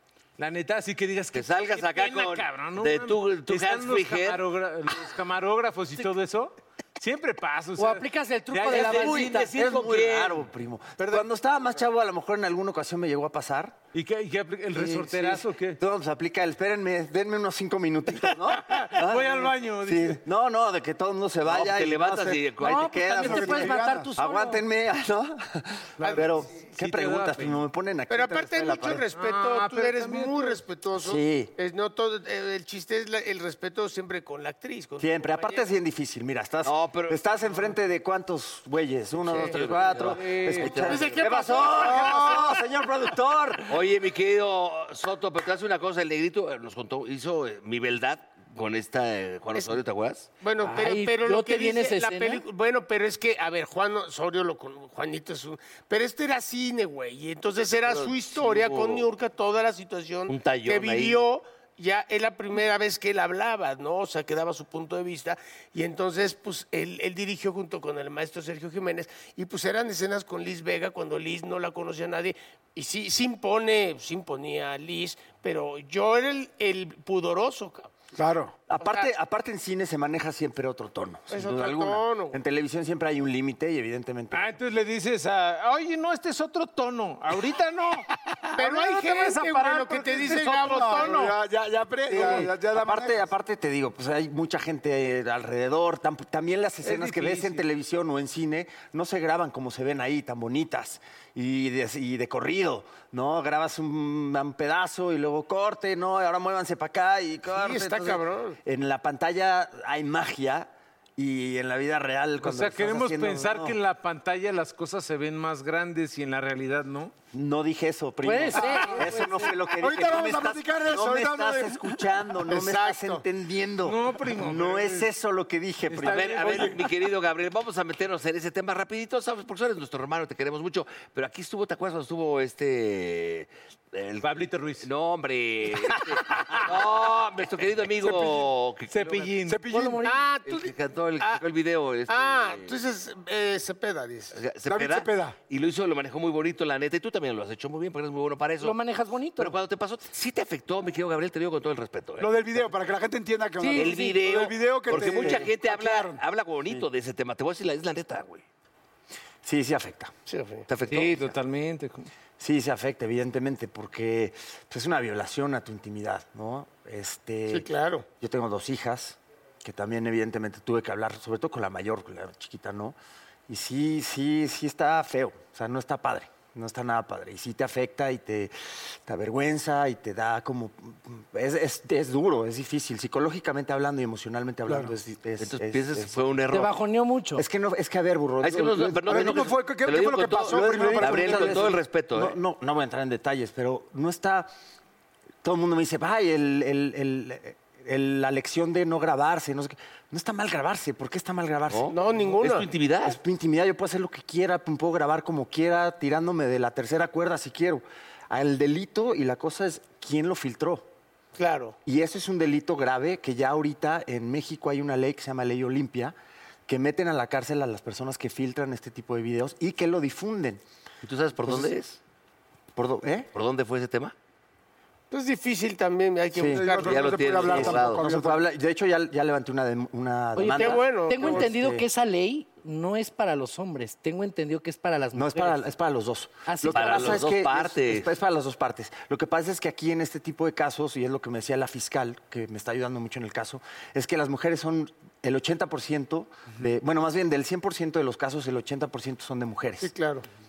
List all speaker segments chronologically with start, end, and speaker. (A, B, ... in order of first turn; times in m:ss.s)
0:00.4-0:09.2 A
0:01.3-0:04.4 B
0:07.8-0:09.6 C
0:08.7-0:10.4 B
0:08.9-0:13.8 D
0:13.9-0:15.8 A
0:14.7-0:29.1 D
0:18.4-0:20.2 A
0:21.4-0:23.6 B
0:22.6-0:24.6 C
0:23.1-0:24.1 E
0:26.0-0:26.3 F
0:26.0-0:27.7 A
0:28.1-0:35.7 F
0:29.1-0:30.6 A
0:31.0-0:31.5 D
0:35.0-0:43.8 D
0:36.6-0:37.2 B
0:39.2-0:42.0 B
0:40.1-0:40.7 A
0:40.6-0:42.6 F
0:43.7-0:50.3 B
0:50.4-1:17.9 F
0:50.6-0:52.4 C
0:57.8-0:59.1 B
1:00.3-1:01.2 B
1:18.1-1:18.5 E
1:18.7-1:24.6 D
1:18.8-1:19.1 F
1:21.3-1:22.4 F
1:24.3-1:28.1 A
1:28.6-1:31.3 F
1:28.6-1:33.3 E
1:30.2-1:31.1 A
1:32.1-1:53.8 D
1:36.8-1:37.6 A
1:47.5-1:48.6 F
1:52.4-1:57.1 A
1:57.3-2:06.7 D
1:58.2-1:59.5 C
1:58.6-2:02.0 E
2:02.5-2:03.2 F
2:03.8-2:05.1 A
2:05.9-2:06.9 A
2:06.0-2:19.3 B
2:14.2-2:14.9 A
2:18.9-2:19.6 A
2:19.5-2:20.0 E
2:19.7-2:20.2 C
2:20.0-2:21.4 F
2:20.4-2:22.8 B
2:22.1-2:24.4 F
2:24.3-2:28.8 B
2:24.6-2:25.4 E
2:28.6-2:29.5 C
2:29.4-2:32.6 B
2:32.2-2:36.2 E
2:33.6-2:34.2 C
2:33.7-2:38.4 B
2:34.9-2:35.5 D
2:39.4-2:40.1 D
2:40.3-2:40.6 F
2:40.7-2:41.3 B
2:40.9-2:42.1 A
2:42.4-2:53.0 D
2:47.5-2:48.0 F
2:53.5-3:06.2 D
3:04.7-3:04.9 E
3:05.4-3:06.7 B
3:06.5-3:07.4 C
3:07.4-3:09.6 D
3:08.4-3:12.4 B
3:09.0-3:11.8 E
3:10.4-3:14.5 D
3:15.4-3:21.9 D
3:21.7-3:23.2 B
3:21.9-3:22.7 F
3:23.0-3:30.8 D
3:31.4-3:31.8 F
3:31.8-3:36.2 D
3:36.7-3:40.6 D
3:41.0-3:42.0 B
3:41.4-3:41.7 D
3:42.8-3:43.3 D
3:43.3-3:44.1 B
3:45.1-3:47.1 F
3:46.3-3:46.8 D
3:46.5-3:48.4 E
3:46.8-3:48.0 B
3:47.4-3:51.8 D
3:50.3-3:55.7 C
3:50.4-3:51.5 F
3:55.1-4:09.9 D
3:56.4-3:57.3 C
3:56.7-3:58.1 B
4:09.8-4:10.2 F